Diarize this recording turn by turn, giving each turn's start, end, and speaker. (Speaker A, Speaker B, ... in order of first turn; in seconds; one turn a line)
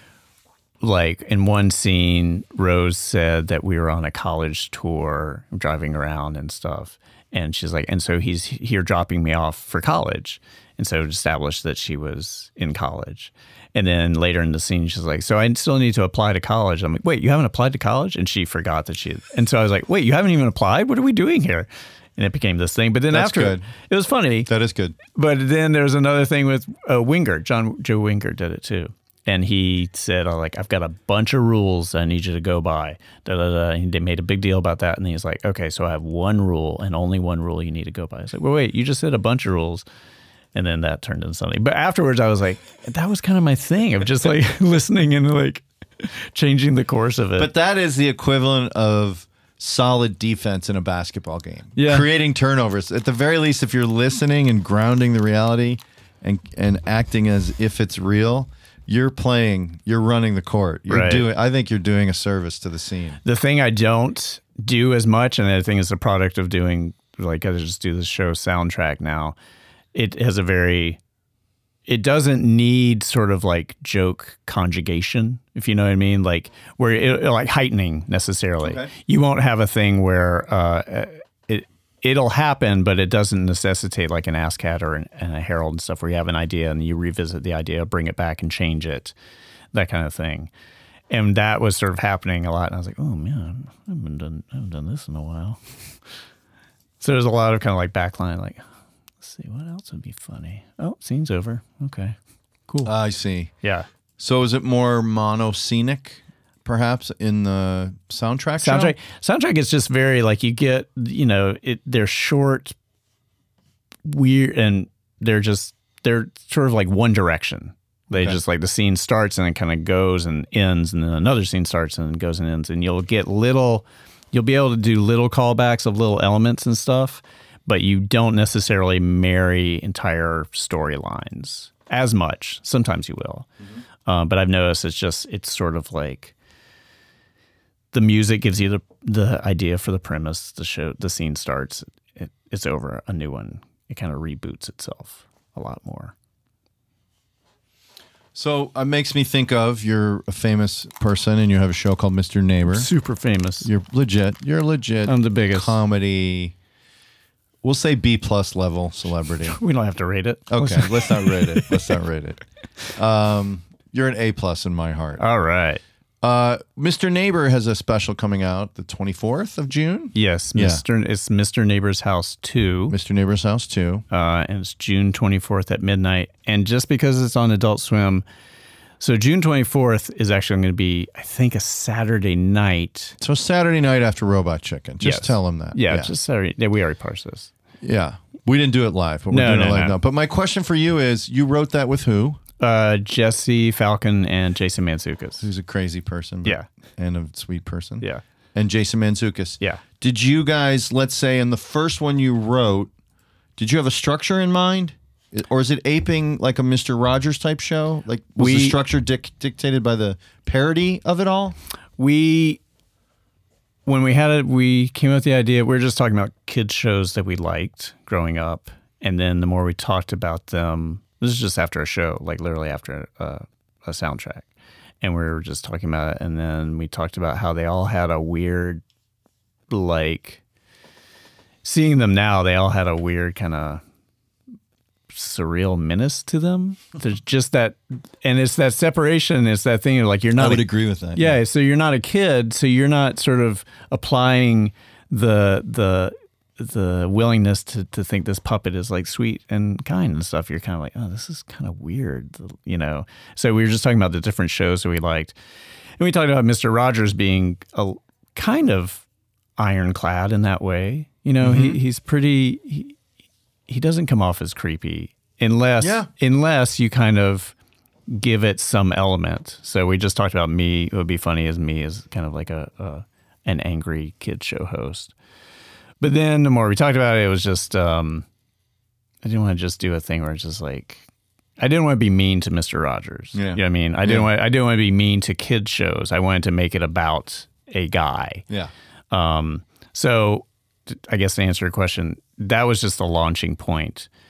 Speaker A: 0.8-24.5
Speaker B: 23.1-23.7
Speaker B: 24.5-25.0
Speaker A: 25.1-39.8
Speaker A: 40.5-47.5
Speaker B: 47.4-63.2
Speaker A: 51.8-52.1
Speaker A: 60.9-61.2
Speaker A: 63.2-69.3
Speaker A: 69.9-71.0
Speaker A: 71.9-89.1
Speaker B: 78.6-78.9
Speaker A: 89.7-90.5
Speaker A: 91.1-95.6
Speaker A: 97.0-98.6
Speaker A: 99.2-102.2
Speaker B: 102.8-103.5
Speaker B: 104.2-109.0
Speaker A: 108.6-112.7
Speaker A: 114.0-133.5
Speaker B: 118.1-118.4
Speaker A: 134.0-136.3
Speaker A: 137.9-146.1
Speaker B: 148.3-152.9
Speaker A: 152.7-153.7
Speaker B: 153.6-156.5
Speaker A: 155.1-155.8
Speaker B: 157.6-159.6
Speaker A: 159.4-161.9
Speaker B: 160.5-162.4
Speaker B: 162.9-165.2
Speaker A: 165.2-165.8
Speaker B: 166.2-170.8
Speaker A: 170.1-173.0
Speaker B: 172.9-174.0
Speaker A: 174.1-178.2
Speaker A: 179.0-183.2
Speaker B: 183.2-186.1
Speaker A: 185.0-187.5
Speaker B: 187.8-192.4
Speaker A: 189.3-190.0
Speaker A: 192.6-195.5
Speaker B: 195.4-202.9
Speaker B: 203.6-211.6
Speaker A: 208.4-208.8
Speaker A: 212.0-212.6
Speaker A: 213.8-224.5
Speaker A: 225.0-228.8
Speaker A: 229.7-230.4
Speaker A: 231.6-233.8
Speaker A: 235.1-255.3
Speaker B: 240.4-241.4
Speaker A: 256.0-259.0
Speaker A: 259.6-262.9
Speaker B: 261.4-261.8
Speaker A: 263.7-267.5
Speaker B: 265.8-266.1
Speaker A: 268.1-275.1
Speaker A: 276.0-278.2
Speaker A: 279.2-281.1
Speaker A: 281.6-288.4
Speaker B: 283.3-284.3
Speaker A: 289.1-294.1